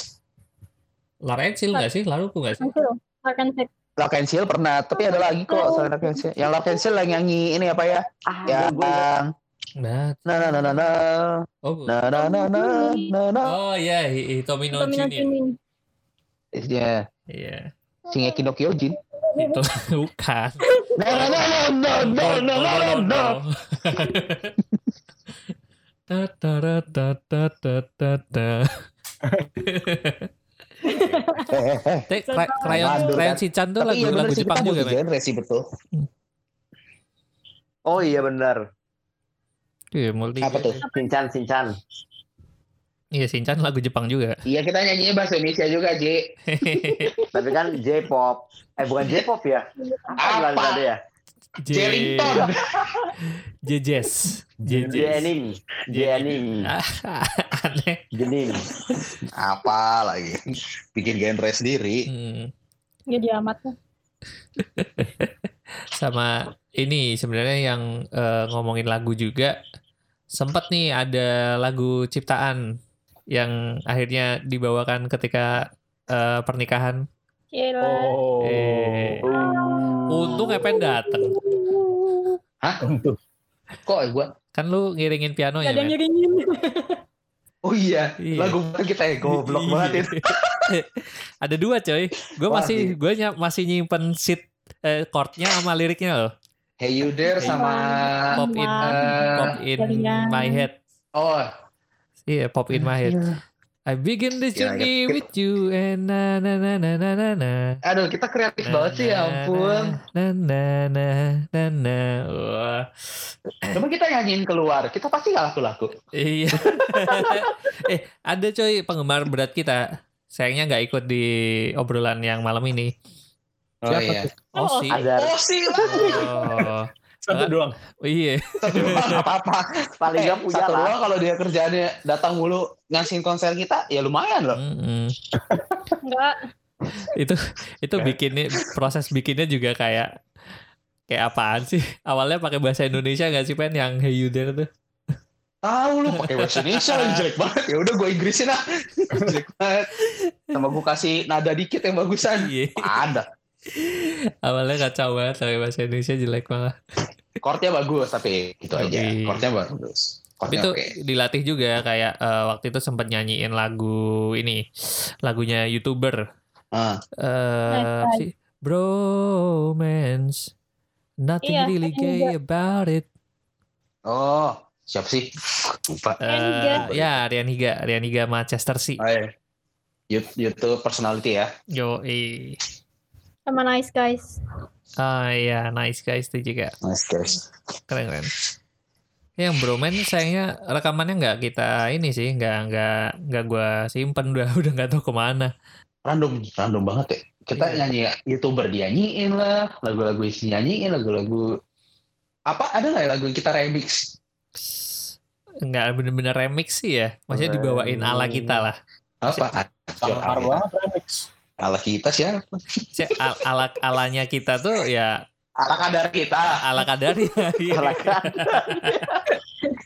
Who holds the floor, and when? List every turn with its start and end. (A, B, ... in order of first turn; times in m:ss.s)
0:01.2-0:02.7 A
0:02.6-0:03.7 B
0:04.0-0:09.3 C
0:04.9-0:06.3 B
0:08.3-0:09.1 D
0:09.8-0:10.2 A
0:10.2-0:13.5 C
0:11.6-0:11.9 A
0:12.1-0:13.1 B
0:13.5-0:15.3 A
0:14.8-0:15.6 B
0:16.5-0:17.1 C
0:17.3-0:17.7 A
0:18.1-0:19.0 C
0:18.1-0:18.4 B
0:19.1-0:19.6 B
0:19.4-0:24.5 A
0:20.9-0:23.4 C
0:26.1-0:28.8 A
0:29.6-0:30.3 A
0:30.8-0:31.5 B
0:31.5-0:32.1 C
0:32.1-0:35.0 A
0:32.3-0:33.2 B
0:32.7-0:35.6 C
0:37.9-0:38.6 D
0:39.9-0:40.8 A
0:40.4-0:40.8 C
0:40.8-0:41.2 B
0:40.9-0:41.7 D
0:43.2-0:44.4 A
0:44.5-0:46.2 C
0:46.5-0:47.1 A
0:47.3-0:51.0 D
0:49.8-0:50.2 B
0:50.2-0:50.8 C
0:51.6-0:52.5 A
0:51.7-0:53.0 C
0:53.6-0:55.3 A
0:54.6-0:55.1 E
0:54.9-0:56.7 D
0:55.9-0:58.0 A
0:58.1-0:58.6 D
0:59.4-1:00.4 C
1:00.9-1:02.1 C
1:02.1-1:02.5 A
1:03.1-1:03.7 B
1:04.6-1:05.3 A
1:05.9-1:09.5 A
1:10.4-1:12.6 A
1:13.3-1:17.0 A
1:17.5-1:18.2 B
1:17.8-1:19.5 E
1:18.4-1:19.2 A
1:19.3-1:22.4 B
1:20.1-1:21.4 A
1:22.8-1:23.2 E
1:23.8-1:24.3 C
1:24.5-1:26.0 A
1:25.6-1:27.0 B
1:27.6-1:30.7 C
1:28.2-1:28.6 A
1:29.3-1:30.0 A
1:29.3-1:30.0 D
1:31.4-1:36.3 A
1:32.5-1:32.9 C
1:36.8-1:39.5 C
1:37.2-1:40.6 B
1:37.4-1:37.6 A
1:38.3-1:40.7 A
1:41.2-1:41.5 C
1:42.3-1:43.2 A
1:42.7-1:43.4 C
1:43.9-1:47.8 A
1:44.5-1:45.2 C
1:47.9-1:49.9 C
1:48.6-1:53.8 A
1:53.7-1:55.9 C
1:56.1-1:59.8 A
1:56.6-1:57.5 C
2:00.3-2:01.3 A
2:01.8-2:02.9 A
2:03.9-2:04.3 C
2:03.9-2:04.2 E
2:03.9-2:05.0 A
2:04.5-2:05.0 B
2:04.9-2:05.4 D
2:05.1-2:06.7 C
2:05.9-2:09.1 A
2:06.0-2:06.3 E
2:07.2-2:07.7 E
2:08.6-2:14.6 C
2:10.0-2:11.0 D
2:14.5-2:15.1 A
2:16.0-2:16.4 B
2:17.0-2:20.1 A
2:21.1-2:24.7 A
2:25.6-2:29.9 C
2:26.5-2:27.2 A
2:30.5-2:33.2 C
2:32.3-2:32.8 A
2:33.8-2:36.7 A
2:37.4-2:40.9 C
2:38.8-2:39.4 A
2:40.5-2:44.6 A
2:45.2-2:46.2 A
2:46.7-2:47.0 C
2:47.2-2:50.5 A
2:47.7-2:48.2 B
2:51.2-2:53.0 A
2:51.4-2:52.3 B
2:54.1-2:57.2 C
2:56.2-2:59.0 A
2:56.3-2:56.8 B
2:59.0-2:59.3 C
3:00.1-3:01.5 C
3:01.7-3:02.6 A
3:03.5-3:04.4 B
3:05.0-3:06.7 A
3:06.8-3:07.4 C
3:07.9-3:08.3 A
3:09.4-3:15.5 A
3:16.0-3:21.6 C
3:17.6-3:17.8 A
3:22.5-3:24.1 C
3:25.6-3:28.8 A
3:27.4-3:28.0 D
3:29.2-3:30.6 C
3:30.0-3:31.3 E
3:31.6-3:32.8 C
3:32.9-3:35.1 A
3:35.6-3:36.8 C
3:36.6-3:39.0 A
3:37.7-3:39.2 D